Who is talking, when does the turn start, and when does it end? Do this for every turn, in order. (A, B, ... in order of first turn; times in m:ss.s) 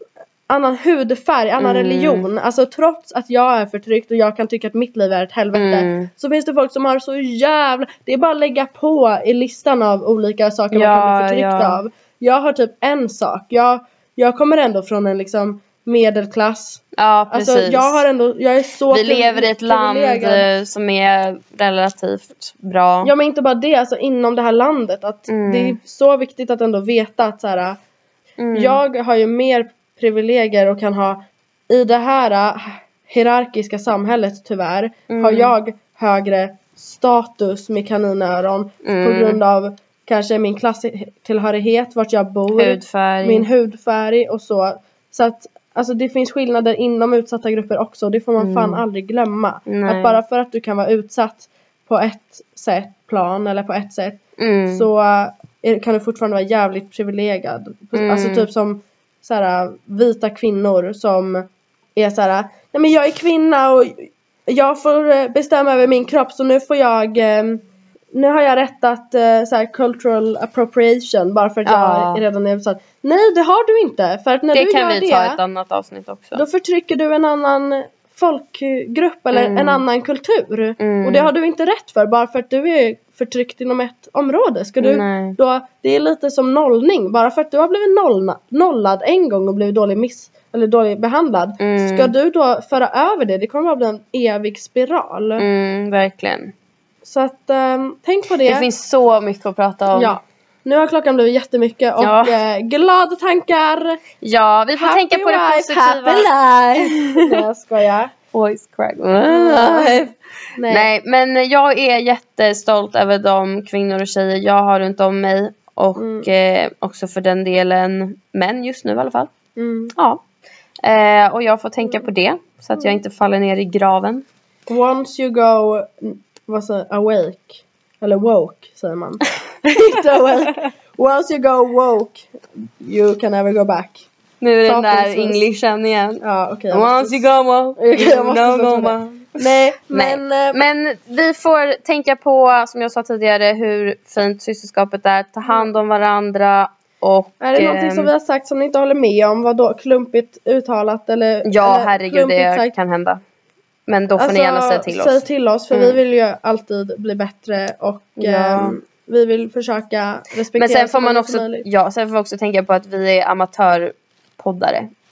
0:00.5-0:20.5 A
0:01.6-0:02.3 B
0:05.5-0:06.1 B
0:10.7-0:11.8 B
0:16.9-0:18.0 B
0:18.9-0:23.1 B
0:23.0-0:27.8 A
0:25.3-0:25.8 B
0:28.4-0:28.8 B
0:28.5-0:54.2 A
0:35.1-0:35.5 B
0:38.8-0:39.4 B
0:42.5-0:43.5 B
0:48.4-0:48.8 B
0:49.6-0:50.2 B
0:54.4-0:54.9 B
0:54.7-1:15.4 A
0:57.9-0:58.5 B
1:11.6-1:12.2 B
1:14.5-1:16.4 B
1:16.3-1:35.4 A
1:19.3-1:19.8 B
1:20.8-1:21.3 B
1:24.8-1:25.4 B
1:31.6-1:32.1 B
1:35.4-1:36.5 B
1:37.0-1:38.7 A
1:38.4-1:40.2 B
1:39.9-1:44.0 A
1:42.0-1:42.4 B
1:44.2-1:47.4 B
1:44.8-1:48.1 A
1:48.3-1:50.2 B
1:49.2-1:50.0 A
1:50.5-1:50.9 A
1:50.7-1:59.3 B
1:56.0-1:56.3 A
1:59.6-1:59.9 A
1:59.9-2:00.2 B
2:00.8-2:04.2 B
2:04.7-2:14.1 A
2:14.4-2:28.1 B
2:14.6-2:15.5 A
2:16.2-2:20.6 A
2:25.5-2:25.7 A
2:27.4-2:32.7 A
2:31.4-2:33.2 B
2:33.9-2:36.0 B
2:34.2-2:41.6 A
2:38.2-2:38.8 B
2:40.5-2:44.9 B